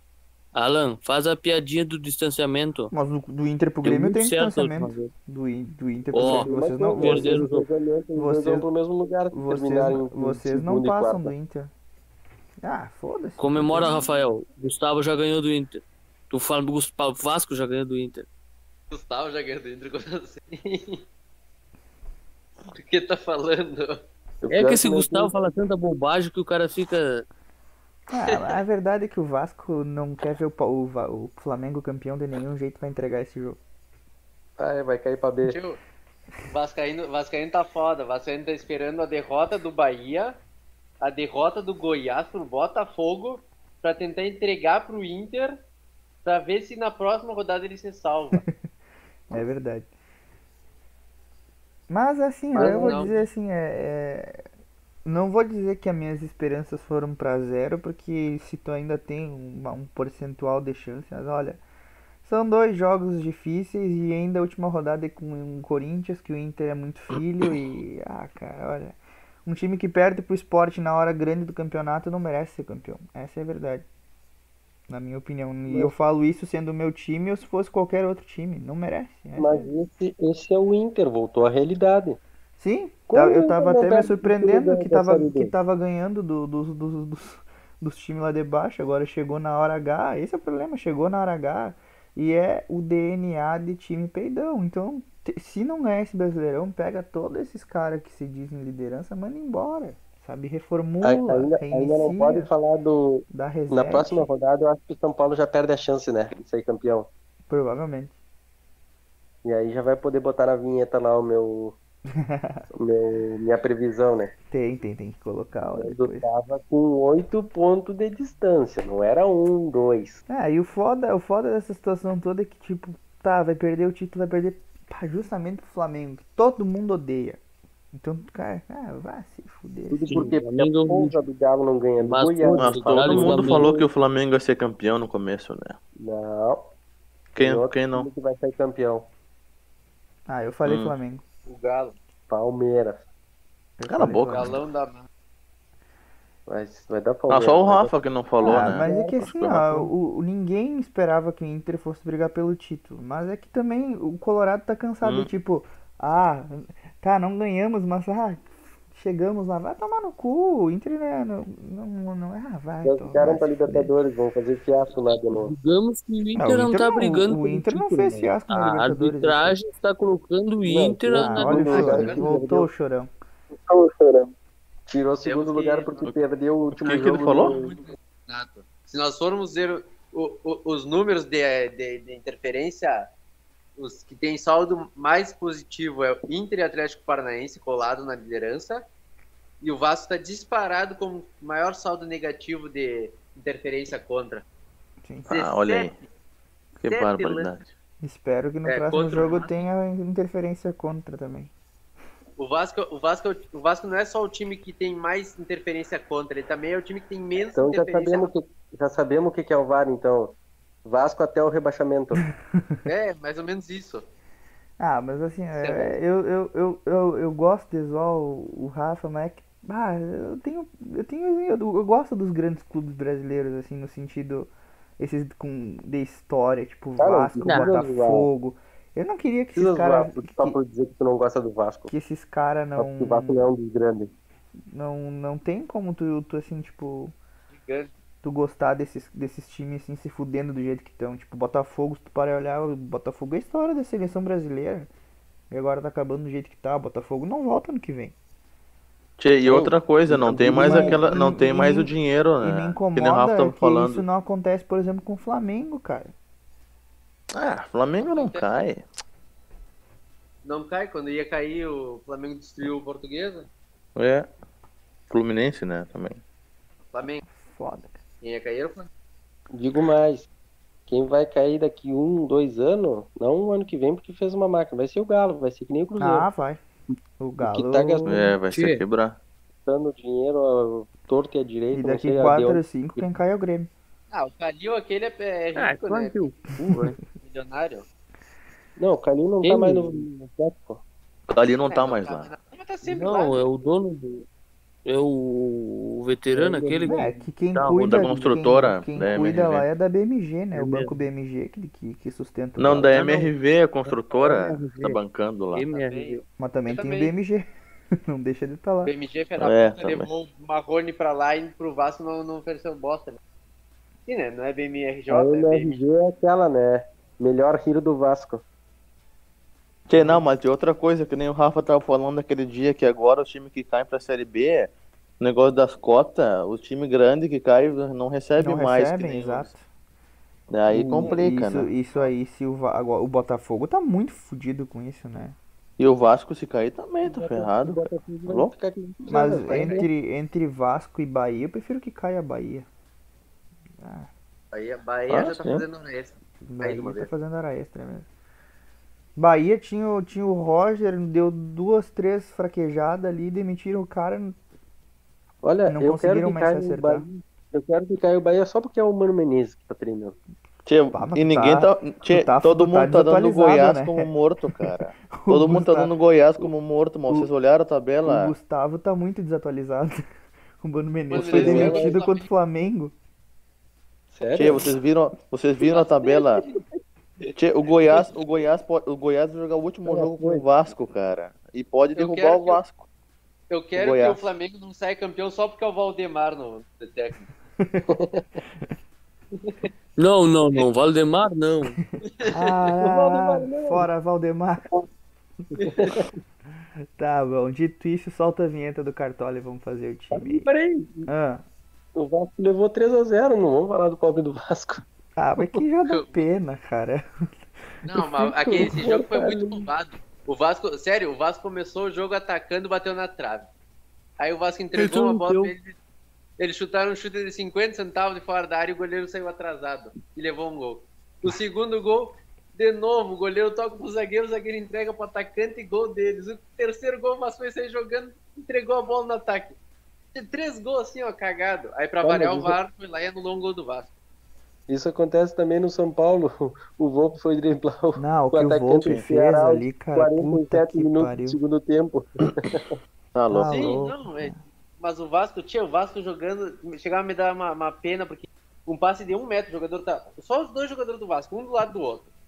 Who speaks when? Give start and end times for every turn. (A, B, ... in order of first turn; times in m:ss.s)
0:00.5-0:02.9 A
0:02.9-0:07.4 B
0:03.8-0:05.1 A
0:06.1-0:07.7 A
0:06.2-0:11.3 C
0:08.2-0:08.7 B
0:09.3-0:11.7 B
0:12.6-0:14.0 B
0:13.4-0:18.2 A
0:18.9-0:21.0 D
0:22.7-0:24.0 D
0:24.4-0:25.3 C
0:24.5-0:27.2 A
0:28.1-0:33.6 B
0:28.3-0:28.6 D
0:34.6-0:35.6 C
0:35.4-0:35.8 D
0:36.5-0:40.4 D
0:41.0-0:45.6 D
0:46.2-0:48.4 D
0:49.3-0:49.9 B
0:51.9-0:54.4 B
0:52.5-0:53.1 D
0:52.5-0:53.1 C
0:55.0-1:01.6 B
1:02.2-1:13.8 B
1:14.9-1:19.7 B
1:19.4-1:22.2 C
1:22.6-1:42.5 B
1:23.1-1:25.5 C
1:41.0-1:47.1 C
1:43.3-1:44.3 B
1:47.5-1:48.1 B
1:49.4-1:51.8 C
1:52.2-1:52.6 B
1:52.8-1:54.3 C
1:54.5-1:56.3 B
1:55.8-2:00.2 C
2:00.3-2:07.4 B
2:07.9-2:10.3 B
2:09.9-2:13.9 C
2:10.1-2:11.2 A
2:12.0-2:13.7 A
2:12.5-2:15.8 E
2:16.0-2:16.7 C
2:17.3-2:18.1 E
2:17.4-2:19.1 C
2:20.3-2:21.2 B
2:20.6-2:20.9 E
2:21.5-2:22.0 D
2:22.3-2:23.0 C
2:23.8-2:24.6 B
2:23.9-2:24.6 E
2:24.3-2:25.1 D
2:26.5-2:29.2 C
2:27.3-2:29.9 E
2:28.4-2:43.9 B
2:35.0-2:35.3 E
2:42.8-2:45.5 C
2:45.4-2:52.0 A
2:46.4-2:49.6 B
2:50.6-2:52.7 C
2:51.1-2:53.1 B
2:52.0-2:52.3 D
2:54.9-2:57.7 C
2:55.2-2:56.0 D
2:56.8-2:57.6 E
2:56.8-3:03.1 D
3:03.8-3:08.8 D
3:09.6-3:14.4 D
3:15.3-3:15.9 E
3:15.3-3:16.0 D
3:16.8-3:17.7 E
3:16.8-3:17.6 D
3:18.0-3:21.5 B
3:18.6-3:19.6 D
3:22.4-3:28.3 D
3:27.5-3:32.2 C
3:32.8-3:34.0 D
3:34.8-3:50.6 B
3:35.6-3:36.0 D
3:47.0-3:48.3 C
3:47.4-3:47.8 A
3:49.6-3:51.9 C
3:51.9-3:53.5 B
3:52.8-3:54.1 C
3:54.7-3:57.1 B
3:57.5-3:57.9 D
3:58.2-4:04.9 B
4:05.5-4:08.1 B
4:09.2-4:14.0 E
4:09.4-4:11.0 C
4:10.5-4:16.1 B
4:17.3-4:18.8 E
4:18.0-4:18.4 D
4:20.4-4:23.5 D
4:24.0-4:24.3 E
4:25.1-4:26.2 E
4:26.9-4:27.2 D
4:27.3-4:28.0 B
4:28.2-4:28.9 D
4:29.5-4:30.3 C
4:30.9-4:36.3 C
4:36.0-4:36.6 B
4:37.2-4:38.3 B
4:37.4-4:38.2 C
4:38.0-4:39.2 E
4:38.5-4:38.8 A
4:39.6-4:43.0 C
4:41.7-4:43.7 B
4:44.1-4:46.4 D
4:45.6-4:47.0 A
4:47.2-4:47.9 D
4:48.8-4:50.8 C
4:49.4-4:50.1 A
4:51.3-4:52.3 E
4:51.7-4:53.4 D
4:52.8-4:54.2 A
4:54.8-4:58.2 A
4:56.3-4:57.1 C
4:56.8-5:03.0 B
4:57.7-4:59.6 E
5:00.5-5:00.9 A
5:02.6-5:05.6 E
5:02.9-5:03.3 A
5:03.8-5:05.0 A
5:05.5-5:06.2 A
5:05.7-5:07.1 D
5:06.4-5:07.5 B
5:08.0-5:08.9 B
5:08.8-5:13.2 D
5:09.4-5:10.1 E
5:14.1-5:15.8 D
5:15.1-5:18.4 C
5:19.9-5:29.5 E
5:20.0-5:20.2 B
5:28.4-5:29.6 B
5:30.5-5:31.7 E
5:30.7-5:35.4 B
5:35.8-5:38.5 E
5:37.0-5:39.9 C
5:39.1-5:42.7 B
5:39.5-5:39.8 D
5:43.8-5:44.1 B
5:44.5-5:47.1 D
5:45.1-5:45.6 E
5:46.5-5:48.0 B
5:49.2-5:54.4 B
5:55.4-6:00.2 C
5:55.7-5:57.0 B
6:00.6-6:08.3 E
6:00.9-6:06.5 B
6:08.0-6:10.0 B
6:10.6-6:12.9 B
6:11.1-6:12.2 D
6:11.2-6:11.7 E
6:11.3-6:11.9 C
6:14.1-6:14.7 C
6:14.3-6:16.4 E
6:15.7-6:16.0 D
6:17.4-6:22.8 E
6:19.8-6:20.4 C
6:22.0-6:22.6 D
6:23.5-6:27.3 D
6:23.7-6:24.3 E
6:27.6-6:27.9 B
6:27.9-6:28.2 C
6:29.4-6:29.7 D
6:30.0-6:31.8 A
6:32.2-6:32.7 D
6:32.3-6:34.6 B
6:32.8-6:33.8 C
6:35.6-6:36.0 D
6:35.6-6:36.0 C
6:37.0-6:40.5 B
6:40.1-6:41.1 C
6:41.0-6:41.4 B
6:41.9-6:44.8 C
6:45.2-6:47.0 B
6:45.9-6:46.2 D
6:47.8-6:53.5 D
6:47.9-6:48.3 B
6:48.4-6:49.7 C
6:54.2-6:55.8 D
6:54.8-6:55.5 A
6:56.4-7:09.6 D
7:10.1-7:13.9 D
7:12.0-7:12.6 C
7:14.7-7:22.8 C
7:17.9-7:21.4 B
7:23.1-7:23.8 E
7:23.3-7:24.3 B
7:23.5-7:32.1 D